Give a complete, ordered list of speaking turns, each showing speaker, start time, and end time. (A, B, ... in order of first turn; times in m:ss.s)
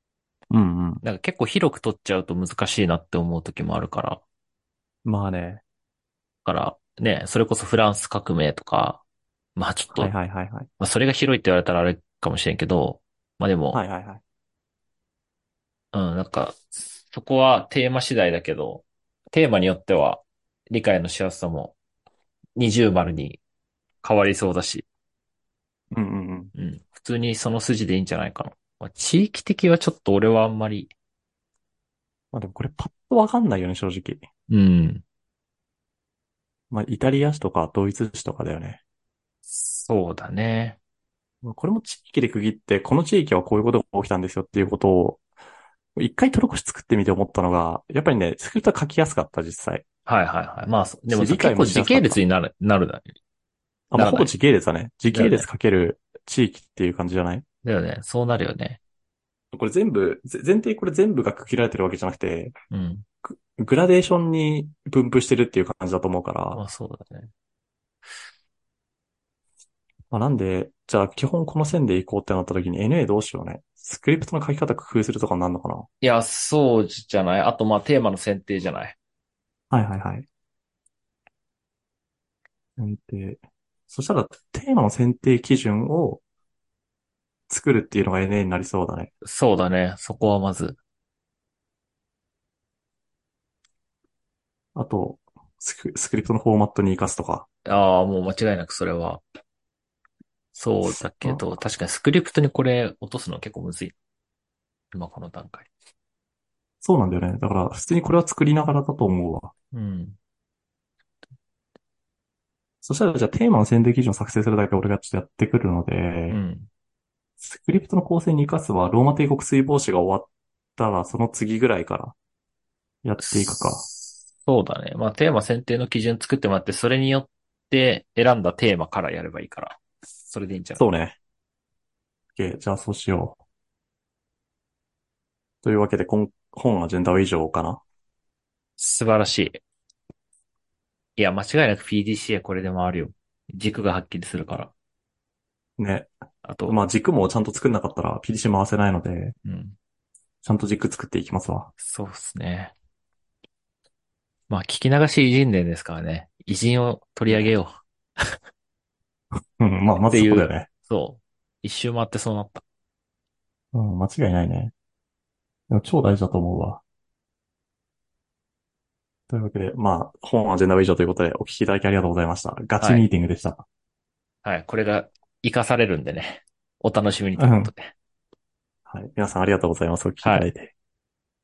0:00.5-0:01.0 A
0:01.0-0:04.2 B
0:05.0-0:05.6 A
0:06.4-0:09.0 B
0:09.6-0:10.1 B
0:09.9-0:10.7 A
0:10.8-0:13.8 B
0:13.7-0:14.2 A
0:15.9-0:21.8 B
0:22.6-0:23.4 B
0:24.0-0:24.8 B
0:25.9-0:26.5 A
0:26.5-0:30.9 B
0:32.3-0:34.2 A
0:34.5-0:35.0 B
0:36.7-0:38.8 A
0:39.5-0:40.8 B
0:41.4-0:45.2 A
0:46.0-0:49.8 A
0:50.0-0:53.1 B
0:51.1-0:52.2 A
0:53.9-0:57.4 A
0:54.0-0:54.3 B
0:55.1-0:55.5 B
0:57.6-0:58.8 B
0:59.5-1:02.5 A
1:02.7-1:03.0 B
1:03.2-1:06.6 A
1:06.5-1:07.3 B
1:10.1-1:15.8 A
1:16.0-1:19.0 B
1:19.7-1:20.3 A
1:22.8-1:26.2 A
1:27.5-1:29.1 A
1:29.2-1:30.8 B
1:34.7-1:37.5 A
1:37.6-1:39.2 B
1:40.5-1:43.9 B
1:40.8-1:41.4 A
1:44.9-1:45.7 B
1:46.8-1:49.5 A
1:49.7-1:50.2 B
1:52.8-1:56.4 A
1:56.3-1:56.7 B
1:57.4-2:02.1 A
2:03.0-2:03.8 A
2:03.2-2:10.8 B
2:10.8-2:11.2 A
2:12.4-2:13.4 A
2:15.6-2:17.8 A
2:18.8-2:19.6 B
2:21.2-2:24.7 B
2:25.8-2:26.1 A
2:26.4-2:26.8 B
2:26.7-2:29.3 A
2:29.4-2:29.8 B
2:30.4-2:31.7 A
2:31.8-2:32.7 B
2:34.5-2:38.4 B
2:39.6-2:40.7 A
2:40.1-2:42.6 B
2:43.7-2:44.7 A
2:45.7-2:46.8 A
2:49.3-2:53.6 A
2:52.8-2:53.1 B
2:54.4-2:57.9 B
2:57.4-2:57.7 A
2:58.9-3:00.7 A